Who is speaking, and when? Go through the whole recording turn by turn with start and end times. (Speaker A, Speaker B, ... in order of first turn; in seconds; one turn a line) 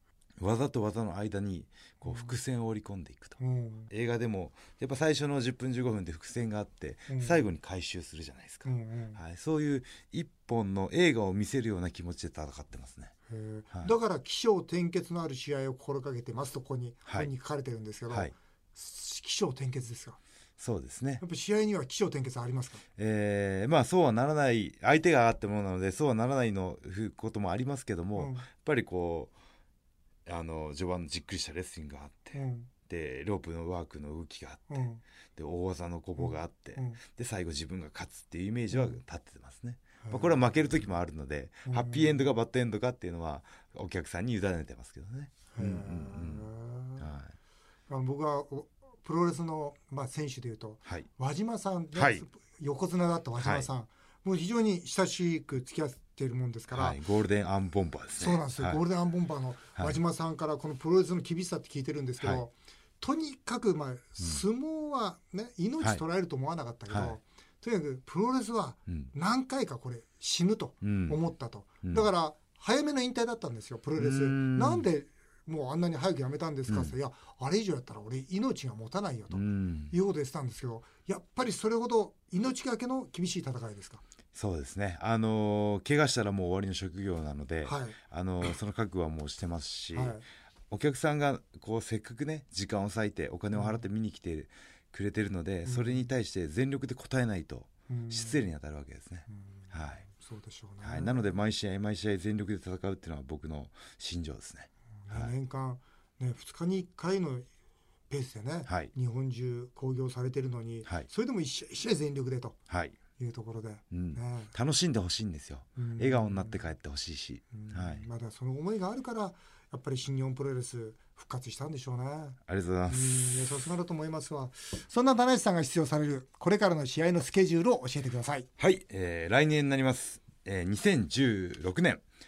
Speaker A: 0.4-3.4
Speaker B: 2.0-2.3
Speaker B: 3.4-3.9
Speaker A: 3.9-13.1
Speaker B: 7.1-7.4
Speaker B: 8.6-9.2
Speaker B: 13.3-20.2
Speaker A: 20.6-21.2
Speaker B: 21.2-22.8
Speaker A: 23.0-29.3
Speaker B: 28.2-28.5
Speaker A: 30.3-47.3
Speaker B: 32.3-32.7
Speaker B: 34.7-35.0
Speaker B: 36.2-37.0
Speaker B: 38.7-39.0
Speaker B: 40.0-40.4
Speaker B: 41.7-42.2
Speaker B: 45.5-47.1
Speaker B: 47.9-57.0
Speaker A: 52.0-52.2
Speaker A: 53.4-53.7
Speaker A: 56.7-58.8
Speaker B: 58.2-84.0
Speaker A: 66.9-67.2
Speaker A: 68.9-69.1
Speaker A: 70.8-71.2
Speaker A: 74.0-74.9
Speaker A: 76.7-76.9
Speaker A: 79.3-80.0
Speaker A: 84.3-90.2
Speaker B: 87.7-88.0
Speaker B: 89.9-90.2
Speaker A: 90.7-100.0
Speaker B: 93.5-93.8
Speaker B: 95.7-96.1
Speaker B: 97.9-98.4
Speaker B: 99.3-101.3
Speaker A: 100.8-105.3
Speaker B: 105.1-107.5
Speaker B: 108.1-112.6
Speaker A: 108.7-108.9
Speaker A: 112.7-113.0
Speaker B: 113.2-114.5
Speaker A: 113.9-118.1
Speaker B: 115.8-116.6
Speaker B: 117.5-122.4
Speaker A: 122.5-123.4
Speaker B: 122.9-128.5
Speaker A: 128.6-132.0